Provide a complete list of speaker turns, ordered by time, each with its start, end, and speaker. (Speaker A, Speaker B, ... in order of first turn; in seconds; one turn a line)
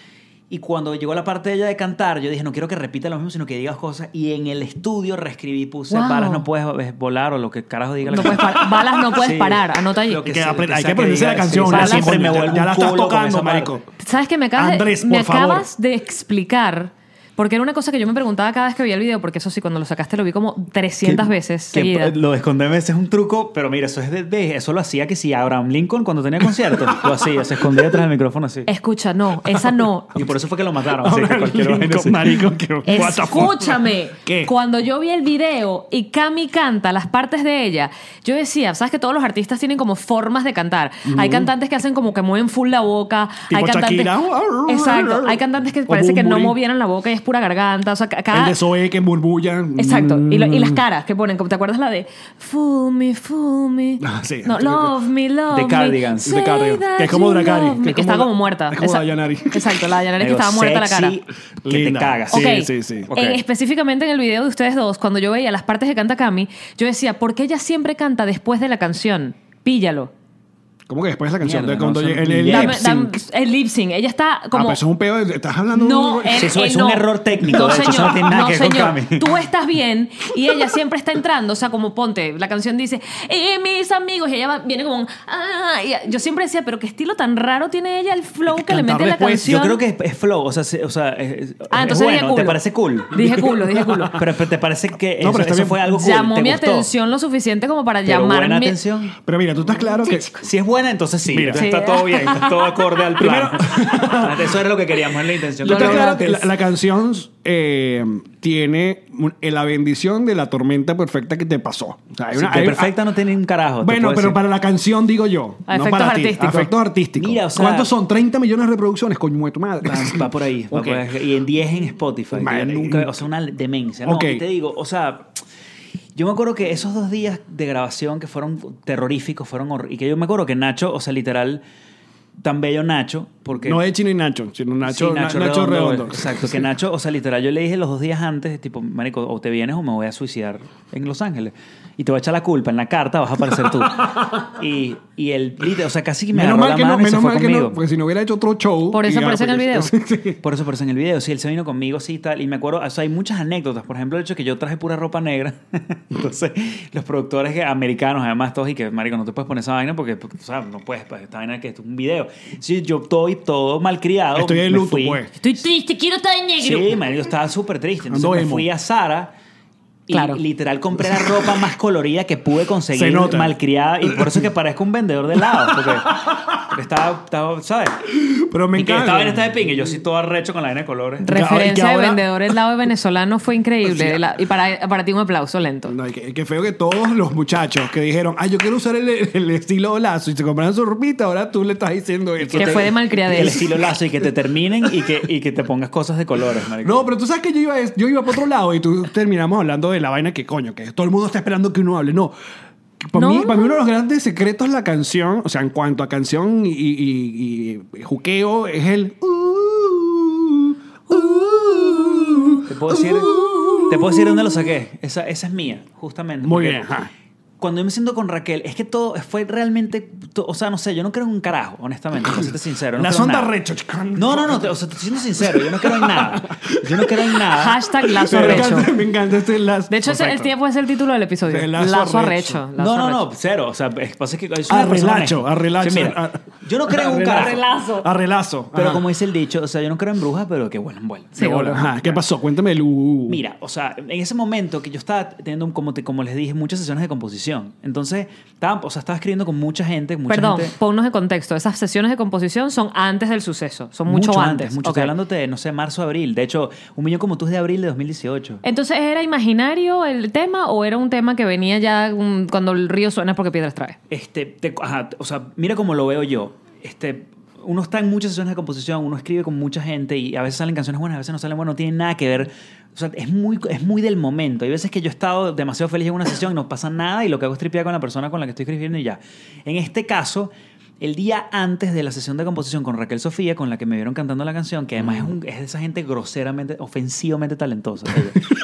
Speaker A: 0.5-13.7
Speaker B: 5.9-6.4
Speaker B: 8.1-10.2
Speaker C: 8.2-9.1
Speaker C: 10.2-13.8
Speaker B: 11.7-12.2
Speaker B: 14.0-22.1
Speaker C: 14.6-15.7
Speaker A: 21.0-28.7
Speaker C: 26.7-27.1
Speaker B: 28.6-30.1
Speaker C: 29.5-30.2
Speaker A: 30.1-32.5
Speaker C: 30.9-34.5
Speaker B: 32.9-44.1
Speaker C: 41.0-41.5
Speaker C: 43.5-46.6
Speaker B: 44.6-48.5
Speaker C: 48.3-50.8
Speaker B: 49.8-61.1
Speaker C: 54.0-54.9
Speaker A: 55.5-56.4
Speaker C: 56.2-59.8
Speaker A: 60.2-62.5
Speaker C: 61.6-63.1
Speaker B: 62.3-70.1
Speaker A: 63.1-63.4
Speaker C: 70.9-73.2
Speaker A: 71.4-72.8
Speaker B: 72.5-74.8
Speaker C: 74.5-76.5
Speaker B: 75.7-89.8
Speaker A: 76.3-79.3
Speaker C: 88.5-89.5
Speaker A: 89.4-93.1
Speaker B: 91.7-94.2
Speaker C: 93.2-94.2
Speaker A: 94.2-96.9
Speaker C: 95.2-95.9
Speaker B: 95.9-98.8
Speaker A: 98.0-99.2
Speaker C: 99.2-100.4
Speaker B: 100.0-100.4
Speaker A: 100.4-106.3
Speaker C: 101.3-101.7
Speaker B: 101.5-102.8
Speaker C: 103.1-104.6
Speaker C: 105.6-113.0
Speaker B: 105.6-106.5
Speaker A: 112.3-114.4
Speaker C: 113.8-121.1
Speaker B: 115.7-116.7
Speaker A: 117.2-117.9
Speaker A: 119.8-125.3
Speaker C: 122.3-123.2
Speaker C: 124.0-124.4
Speaker A: 126.2-131.6
Speaker A: 132.4-133.8
Speaker C: 133.6-136.7
Speaker A: 134.8-147.8
Speaker C: 143.8-144.3
Speaker C: 146.3-150.4
Speaker B: 148.9-149.9
Speaker A: 150.4-165.3
Speaker C: 164.3-165.3
Speaker B: 165.4-166.9
Speaker A: 166.6-169.3
Speaker C: 168.1-168.7
Speaker A: 170.1-178.0
Speaker B: 170.1-170.4
Speaker C: 171.0-171.6
Speaker C: 172.9-174.5
Speaker C: 175.3-176.6
Speaker C: 178.1-179.7
Speaker A: 178.7-181.3
Speaker B: 181.2-185.9
Speaker C: 181.3-182.6
Speaker C: 183.8-184.2
Speaker C: 185.8-194.2
Speaker A: 192.4-197.1
Speaker B: 192.5-193.7
Speaker C: 194.8-195.1
Speaker C: 196.8-202.3
Speaker C: 203.0-214.7
Speaker B: 203.1-203.8
Speaker A: 212.6-216.8
Speaker C: 216.4-217.1
Speaker A: 217.6-223.5
Speaker C: 222.2-230.5
Speaker A: 224.1-228.8
Speaker B: 227.5-228.9
Speaker B: 229.9-233.2
Speaker C: 231.5-232.6
Speaker A: 232.8-237.6
Speaker C: 234.7-239.1
Speaker B: 237.2-238.1
Speaker A: 238.7-242.2
Speaker C: 241.4-243.4
Speaker B: 241.4-241.8
Speaker A: 243.3-250.7
Speaker B: 250.3-255.1
Speaker A: 254.1-258.6
Speaker B: 258.6-263.9
Speaker A: 264.1-288.5
Speaker C: 285.0-285.3